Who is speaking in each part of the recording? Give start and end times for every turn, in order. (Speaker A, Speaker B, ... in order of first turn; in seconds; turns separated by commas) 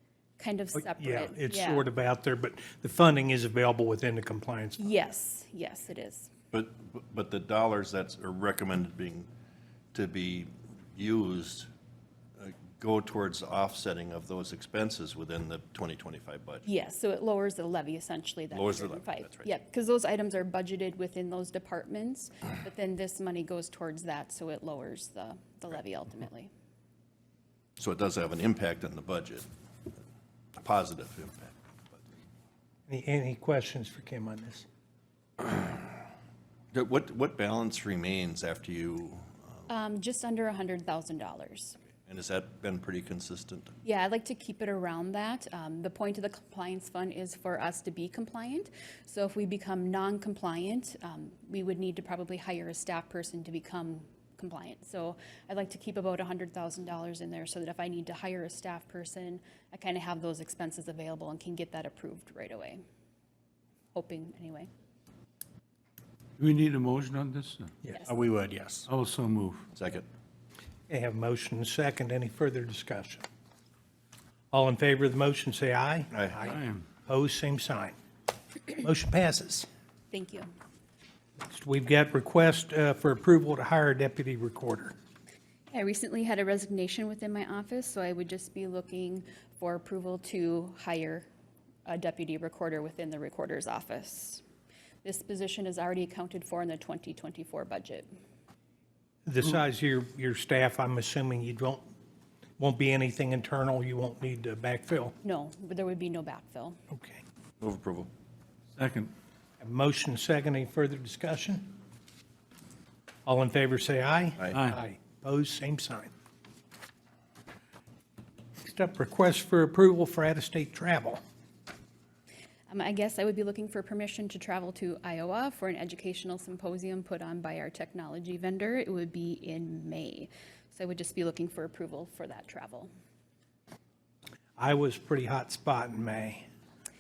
Speaker A: 0.4-1.9, Speaker B: 0.8-4.9, Speaker A: 4.8-6.3, Speaker C: 6.5-9.3, Speaker C: 9.9-11.7, Speaker C: 12.4-16.6, Speaker A: 16.6-26.5, Speaker C: 18.5-19.5, Speaker C: 27.8-29.5, Speaker C: 30.6-31.6, Speaker B: 32.9-34.7, Speaker C: 35.4-35.9, Speaker C: 36.7-39.7, Speaker A: 39.7-41.8, Speaker C: 42.1-43.7, Speaker A: 43.8-62.8, Speaker A: 63.9-64.7, Speaker D: 66.4-67.8, Speaker C: 68.2-68.8, Speaker D: 68.9-69.7, Speaker C: 69.8-70.1, Speaker B: 70.9-73.2, Speaker B: 74.5-77.9, Speaker C: 76.1-76.5, Speaker D: 76.5-76.8, Speaker B: 78.7-79.7, Speaker A: 80.1-80.5, Speaker B: 81.4-84.9, Speaker A: 85.7-91.3, Speaker A: 91.9-94.4, Speaker A: 95.0-98.1, Speaker B: 99.2-101.8, Speaker B: 102.6-105.1, Speaker A: 105.2-106.8, Speaker B: 106.9-107.2, Speaker C: 107.6-108.1, Speaker D: 108.8-109.1, Speaker B: 109.6-111.8, Speaker B: 113.3-116.1, Speaker D: 114.5-114.8, Speaker B: 118.6-121.2, Speaker A: 122.7-132.9, Speaker B: 134.6-136.4